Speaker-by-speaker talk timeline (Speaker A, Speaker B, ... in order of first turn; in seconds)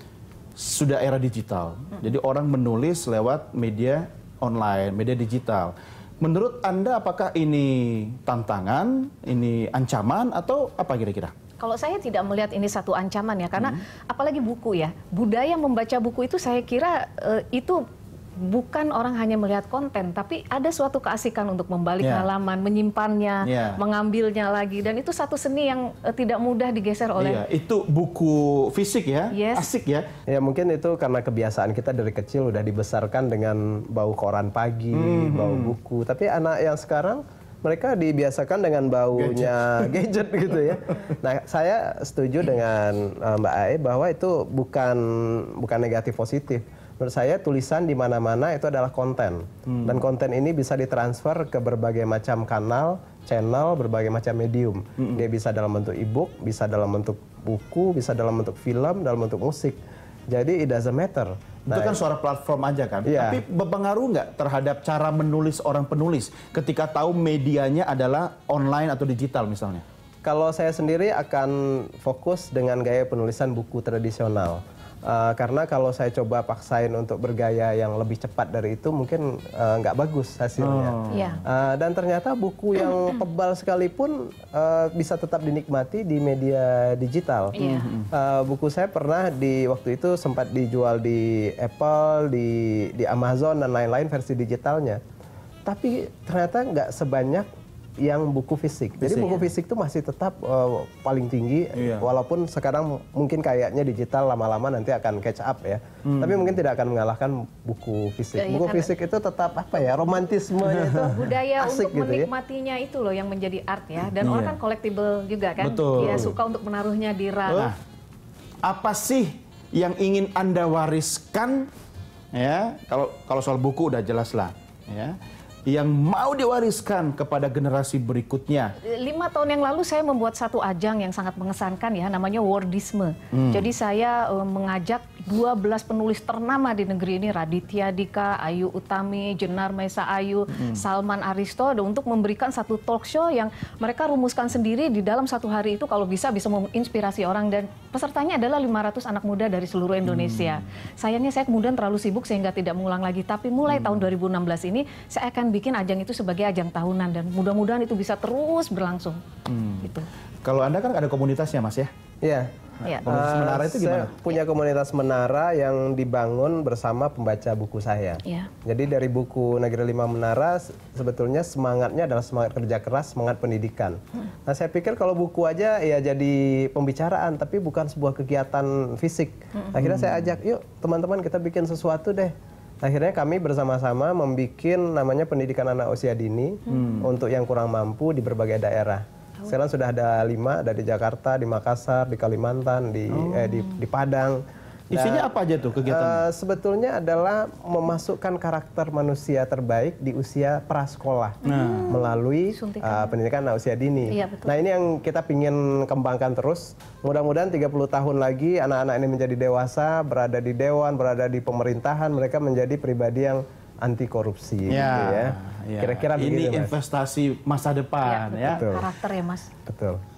Speaker A: 0.6-11.3, 22.0-22.3, 23.4-23.8, 27.1-30.1, 34.9-35.7, 39.1-39.9, 49.7-49.9, 61.7-69.8, 80.6-81.4, 87.6-88.1, 99.0-99.4, 101.8-102.0, 106.0-106.5, 114.2-114.6, 115.6-116.3, 117.5-117.8, 118.6-121.7, 122.3-128.7, 133.3-133.7, 150.0-150.6, 153.7-154.1, 159.5-159.9, 160.4-161.9, 162.9-164.2, 179.8-180.2, 186.7-187.0, 193.1-193.6, 194.9-196.2, 201.4-201.9, 214.7-218.7
Speaker B: 11.6-17.8, 18.4-27.4, 29.3-29.7, 81.1-81.4, 87.5-87.9, 108.3-108.9, 111.0-117.7, 128.8-159.2, 159.8-160.1, 168.2-168.5, 201.4-203.1, 204.1-204.5, 218.0-219.5
Speaker C: 30.3-59.8, 60.3-62.0, 63.0-63.4, 70.2-87.6, 88.1-95.0, 95.6-97.5, 98.0-112.3, 116.0-116.3, 162.2-162.5, 163.0-194.4, 194.9-216.7, 218.5-218.8, 219.7-220.0